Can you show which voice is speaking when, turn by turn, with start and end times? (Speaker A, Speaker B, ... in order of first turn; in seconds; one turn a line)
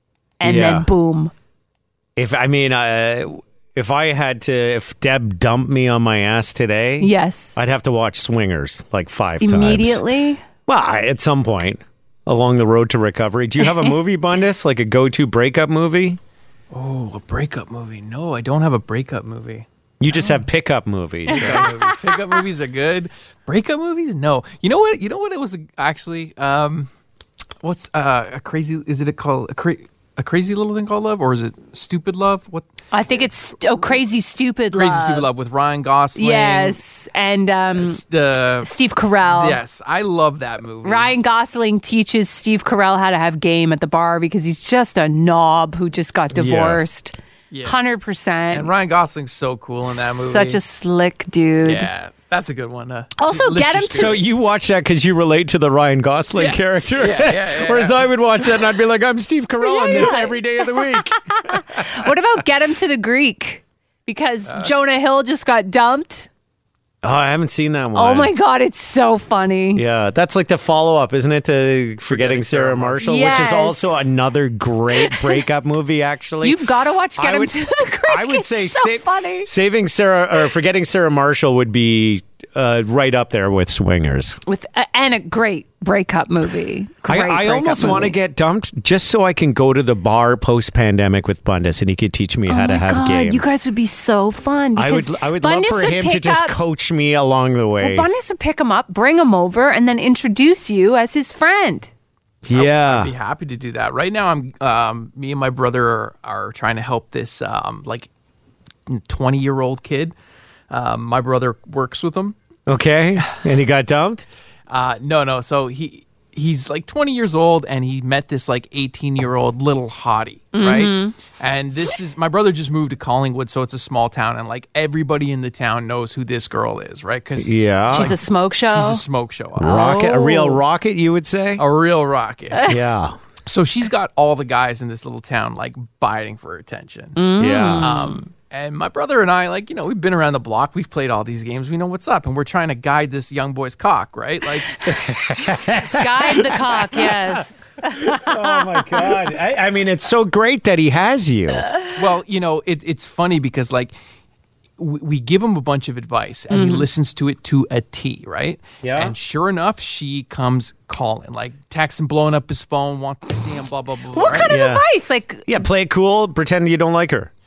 Speaker A: 0.4-1.3
Speaker B: 0.4-0.9
Speaker B: 2.1-10.0
Speaker A: 7.0-7.6
Speaker A: 9.4-10.4
Speaker B: 10.7-16.2
Speaker C: 16.7-20.4
Speaker B: 20.0-21.7
Speaker C: 21.3-26.9
Speaker A: 21.3-22.1
Speaker C: 27.6-33.2
Speaker A: 32.9-35.3
Speaker C: 34.7-36.8
Speaker A: 36.1-38.0
Speaker C: 37.7-38.7
Speaker A: 38.6-39.6
Speaker C: 39.2-41.1
Speaker A: 40.8-48.7
Speaker B: 46.3-46.8
Speaker C: 47.5-47.8
Speaker C: 48.5-50.6
Speaker A: 49.8-51.9
Speaker C: 51.6-54.3
Speaker A: 53.2-54.2
Speaker B: 53.9-61.9
Speaker C: 56.4-58.1
Speaker A: 59.6-66.3
Speaker C: 64.5-64.8
Speaker B: 67.0-68.3
Speaker A: 67.9-69.8
Speaker B: 69.8-76.6
Speaker C: 72.1-73.0
Speaker A: 73.0-74.1
Speaker A: 74.9-75.4
Speaker A: 76.4-79.5
Speaker B: 77.2-84.4
Speaker A: 84.5-88.2
Speaker B: 87.0-93.4
Speaker A: 92.5-96.6
Speaker B: 94.8-98.1
Speaker A: 97.8-101.9
Speaker B: 102.5-103.1
Speaker C: 102.5-108.1
Speaker C: 108.9-110.1
Speaker C: 110.7-112.3
Speaker B: 112.7-114.2
Speaker C: 114.7-130.0
Speaker A: 120.5-121.1
Speaker B: 127.4-128.1
Speaker A: 127.9-129.0
Speaker B: 129.6-131.6
Speaker A: 129.6-130.6
Speaker C: 131.6-132.8
Speaker B: 132.6-133.2
Speaker C: 133.5-137.3
Speaker A: 137.2-138.2
Speaker B: 137.4-137.9
Speaker C: 137.8-144.8
Speaker B: 144.8-151.7
Speaker A: 145.7-148.8
Speaker C: 151.9-153.9
Speaker C: 154.8-164.5
Speaker A: 156.5-156.8
Speaker B: 158.8-159.1
Speaker A: 164.1-165.6
Speaker B: 164.2-164.8
Speaker B: 165.5-167.3